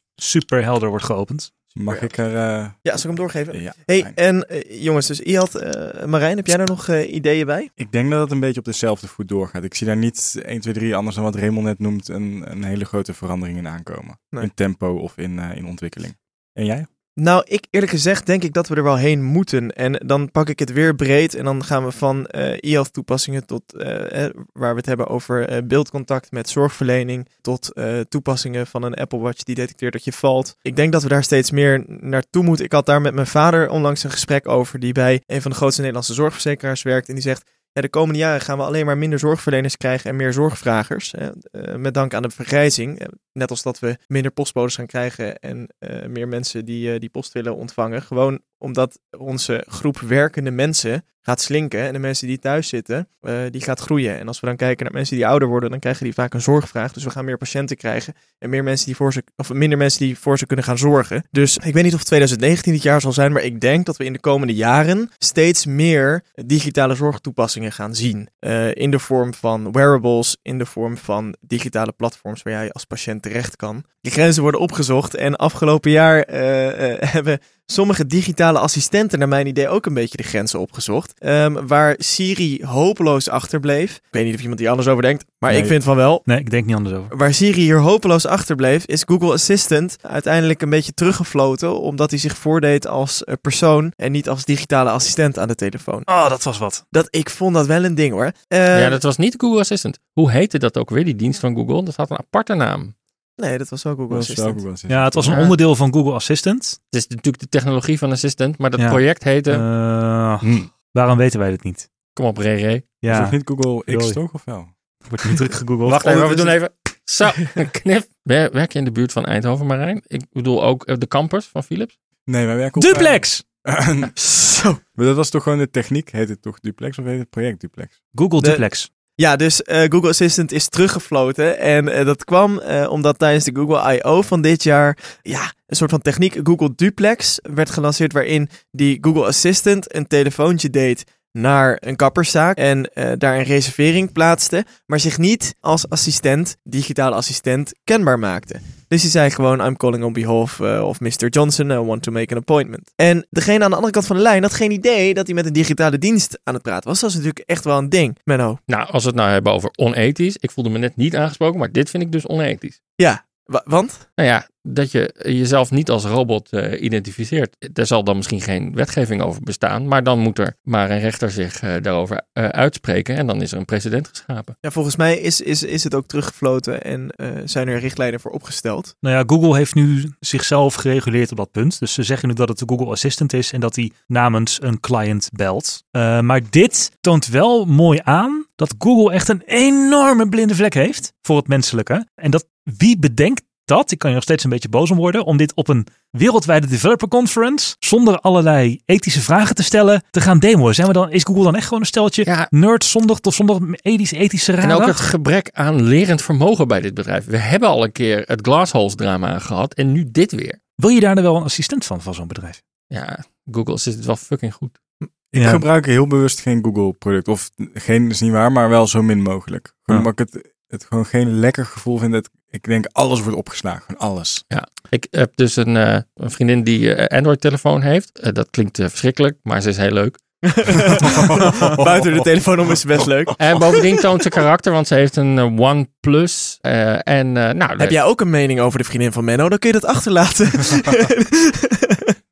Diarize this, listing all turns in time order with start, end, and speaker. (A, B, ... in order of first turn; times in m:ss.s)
0:00.2-0:01.5 A
0:01.8-0:02.8 B
0:02.8-0:07.7 C
0:03.5-0:04.1 B
0:07.8-0:16.9 B
0:17.2-1:26.2 C
1:25.5-1:25.7 B
1:26.2-1:27.1 A
1:27.1-1:36.1 C
1:36.1-1:36.8 A
1:36.9-1:39.0 C
1:38.7-1:42.9 D
1:43.4-1:44.6 C
1:44.1-1:45.4 B
1:44.9-1:46.8 A
1:45.3-1:45.6 D
1:46.9-1:49.6 D
1:48.8-1:51.9 A
1:50.4-1:50.7 B
1:52.1-1:52.9 D
1:53.0-1:54.2 A
1:53.1-1:54.7 B
1:55.0-1:56.5 A
1:55.8-2:01.9 D
2:02.3-2:04.1 B
2:02.8-2:03.4 A
2:04.2-2:04.8 C
2:05.0-2:08.0 B
2:08.1-2:08.9 A
2:08.4-2:08.6 C
2:09.2-2:38.6 C
2:38.7-2:42.8 D
2:43.0-2:44.0 C
2:44.2-2:54.5 D
2:54.6-2:58.9 C
2:59.0-3:25.0 A
3:22.2-3:22.5 D
3:24.6-3:30.6 D
3:30.8-3:32.6 A
3:32.9-3:34.8 D
3:35.3-3:44.4 B
3:35.3-3:35.6 A
3:44.5-3:50.4 D
3:50.4-3:53.4 C
3:51.0-3:52.2 B
3:53.4-3:58.0 D
3:57.8-4:02.1 C